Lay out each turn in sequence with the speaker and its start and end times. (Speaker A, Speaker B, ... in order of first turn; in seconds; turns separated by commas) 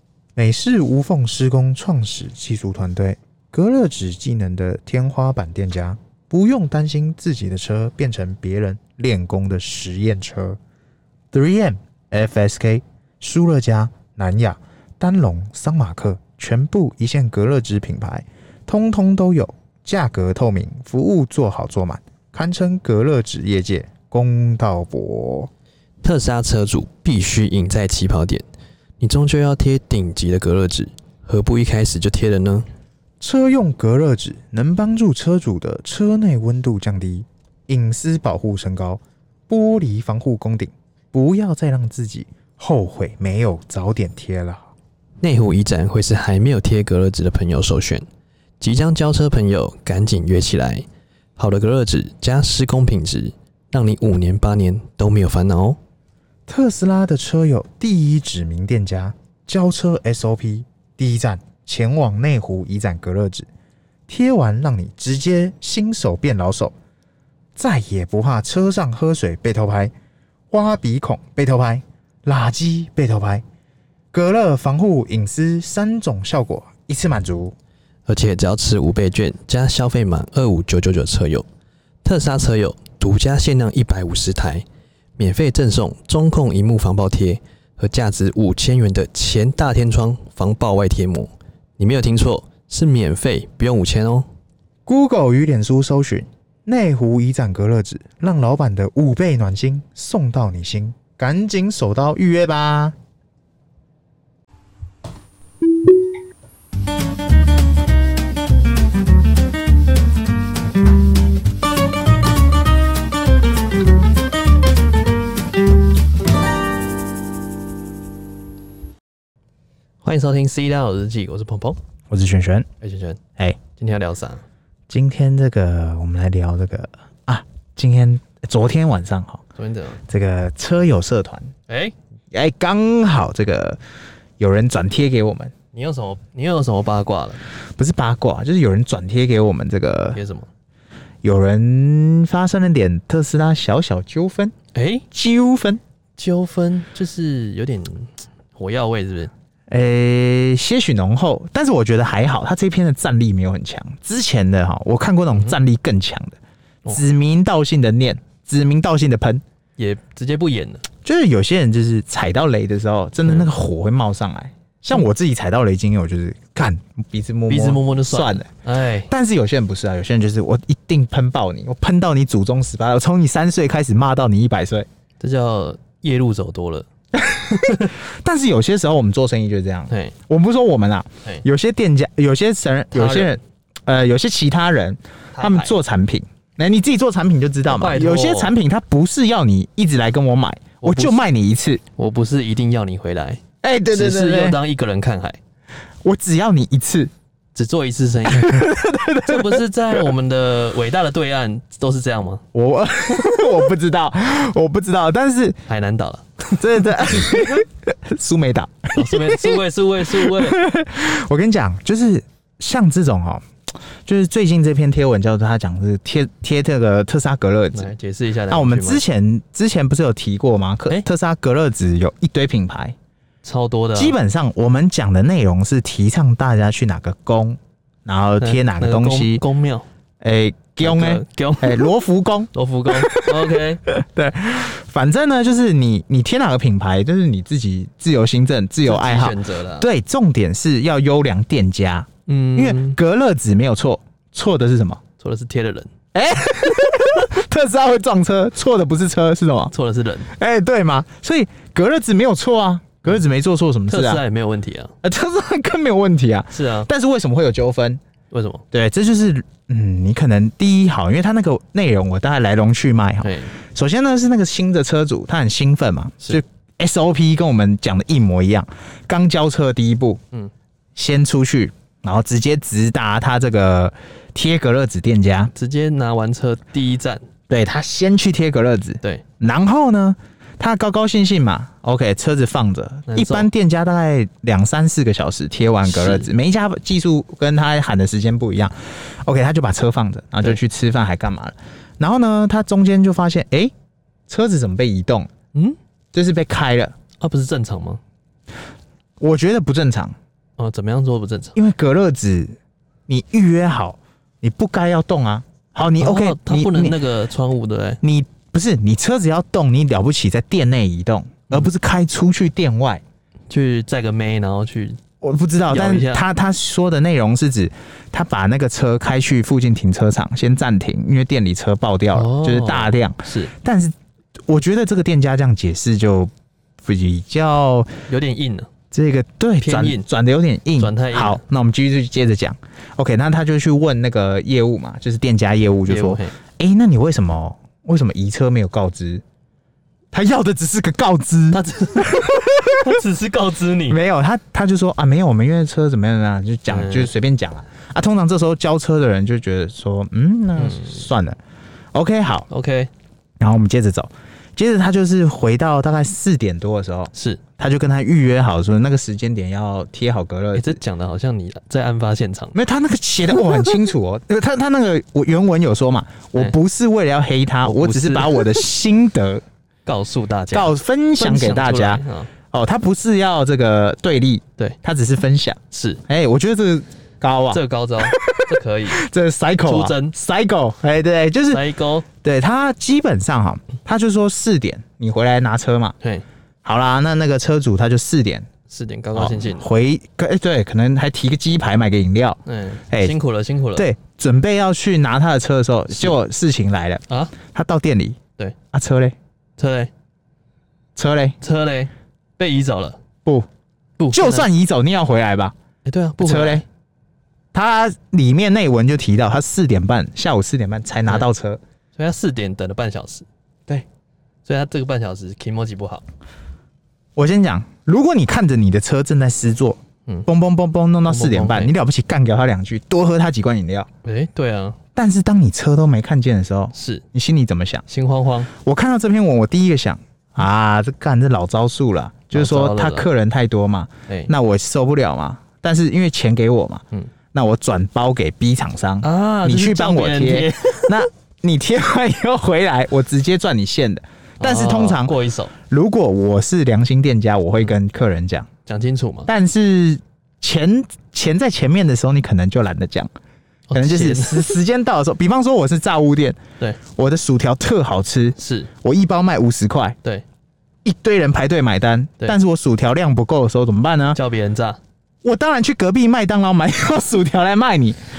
Speaker A: 0.4-10.6, Speaker A: 11.3-25.5, Speaker B: 26.0-28.4, Speaker B: 29.0-32.7, Speaker A: 33.2-44.7, Speaker B: 45.2-48.0, Speaker B: 48.6-50.9, Speaker B: 51.4-55.8, Speaker A: 56.5-63.5, Speaker A: 64.1-66.7, Speaker A: 67.6-69.9, Speaker A: 70.5-73.4, Speaker A: 74.1-77.5, Speaker B: 78.1-81.5, Speaker B: 82.0-84.6, Speaker B: 85.2-94.3, Speaker A: 94.9-103.0, Speaker B: 120.0-121.8, Speaker A: 122.1-122.7, Speaker B: 122.8-124.4, Speaker A: 124.9-129.4, Speaker B: 129.6-130.0, Speaker A: 130.1-131.5, Speaker B: 131.7-131.9, Speaker A: 132.3-133.8, Speaker A: 134.4-135.5, Speaker B: 135.7-137.4, Speaker A: 137.8-140.2, Speaker B: 140.1-140.5, Speaker A: 141.2-144.5, Speaker B: 144.7-145.1, Speaker A: 145.1-145.8, Speaker B: 146.2-149.3, Speaker A: 149.7-156.4, Speaker A: 156.9-159.4, Speaker B: 159.8-160.8, Speaker A: 161.0-168.5, Speaker B: 167.5-169.1, Speaker A: 169.1-174.9, Speaker B: 175.2-176.9, Speaker A: 177.2-191.8, Speaker B: 177.5-177.9, Speaker B: 179.9-180.1, Speaker B: 182.9-183.4, Speaker B: 185.3-185.8, Speaker B: 187.7-188.6, Speaker B: 190.8-191.2, Speaker B: 192.0-195.4, Speaker A: 193.6-194.6, Speaker A: 196.0-197.1, Speaker B: 197.6-198.7, Speaker A: 198.3-200.0, Speaker B: 199.3-202.4, Speaker A: 202.5-205.6, Speaker B: 205.7-207.7, Speaker A: 206.6-213.5, Speaker B: 208.9-210.6, Speaker A: 214.1-217.9, Speaker B: 217.7-219.0, Speaker A: 218.5-223.0, Speaker B: 223.4-224.2, Speaker A: 224.0-229.4, Speaker B: 228.4-229.9, Speaker A: 230.2-245.0, Speaker B: 230.8-231.9, Speaker B: 232.5-233.8, Speaker B: 238.8-239.9, Speaker B: 242.3-243.0, Speaker B: 245.2-245.9, Speaker A: 246.1-249.7, Speaker B: 249.7-250.3, Speaker A: 250.3-254.2, Speaker B: 253.9-254.9, Speaker A: 255.0-258.0, Speaker B: 256.5-256.9, Speaker B: 258.3-258.6, Speaker A: 258.7-270.2, Speaker B: 263.2-263.6, Speaker A: 271.0-275.5, Speaker B: 275.5-277.2, Speaker A: 277.5-293.7, Speaker B: 283.1-283.5, Speaker B: 285.9-286.3, Speaker A: 294.3-295.3, Speaker A: 296.1-296.9, Speaker B: 297.2-298.0, Speaker A: 299.2-300.2, Speaker B: 300.6-301.6, Speaker A: 301.6-302.6, Speaker A: 303.1-307.0, Speaker B: 306.0-308.0, Speaker A: 308.0-313.0, Speaker B: 313.5-315.0, Speaker A: 315.2-324.0, Speaker B: 315.7-316.2, Speaker B: 322.1-323.5, Speaker A: 324.5-326.3, Speaker A: 326.8-327.9, Speaker B: 328.1-328.7, Speaker A: 328.9-339.2, Speaker B: 329.6-330.1, Speaker B: 330.8-331.4, Speaker B: 335.9-336.4, Speaker A: 340.1-343.0, Speaker B: 341.5-344.0, Speaker A: 343.9-351.4, Speaker B: 346.7-347.1, Speaker B: 350.6-351.0, Speaker A: 351.9-352.5, Speaker B: 352.5-352.9, Speaker A: 353.4-360.8, Speaker B: 357.1-357.4, Speaker B: 360.6-362.6, Speaker A: 362.5-369.4, Speaker B: 367.6-368.6, Speaker B: 369.9-372.3, Speaker A: 370.5-385.9, Speaker B: 375.7-376.0, Speaker B: 377.5-379.0, Speaker B: 379.6-380.1, Speaker B: 381.5-382.1, Speaker A: 386.6-388.5, Speaker B: 388.7-389.7, Speaker A: 389.1-393.1, Speaker B: 392.5-393.9, Speaker A: 393.8-398.2, Speaker B: 397.1-397.4, Speaker A: 398.7-399.2, Speaker B: 399.6-399.9, Speaker A: 401.0-401.4, Speaker B: 401.4-403.0, Speaker B: 404.0-404.5, Speaker A: 404.1-405.6, Speaker B: 405.9-406.6, Speaker A: 406.2-406.6, Speaker A: 407.5-411.6, Speaker B: 412.0-413.3, Speaker B: 414.5-416.1, Speaker A: 417.2-423.9, Speaker B: 421.1-421.7, Speaker B: 424.0-424.8, Speaker A: 424.9-427.8, Speaker B: 426.7-427.0, Speaker B: 427.9-428.5, Speaker A: 428.5-448.5, Speaker B: 432.3-433.1, Speaker B: 439.0-441.1, Speaker B: 444.4-445.5, Speaker B: 448.7-449.3, Speaker A: 449.3-453.1, Speaker B: 453.7-454.6, Speaker A: 453.7-460.0, Speaker B: 458.4-458.7, Speaker A: 460.9-464.2, Speaker B: 464.1-464.8, Speaker A: 465.2-468.0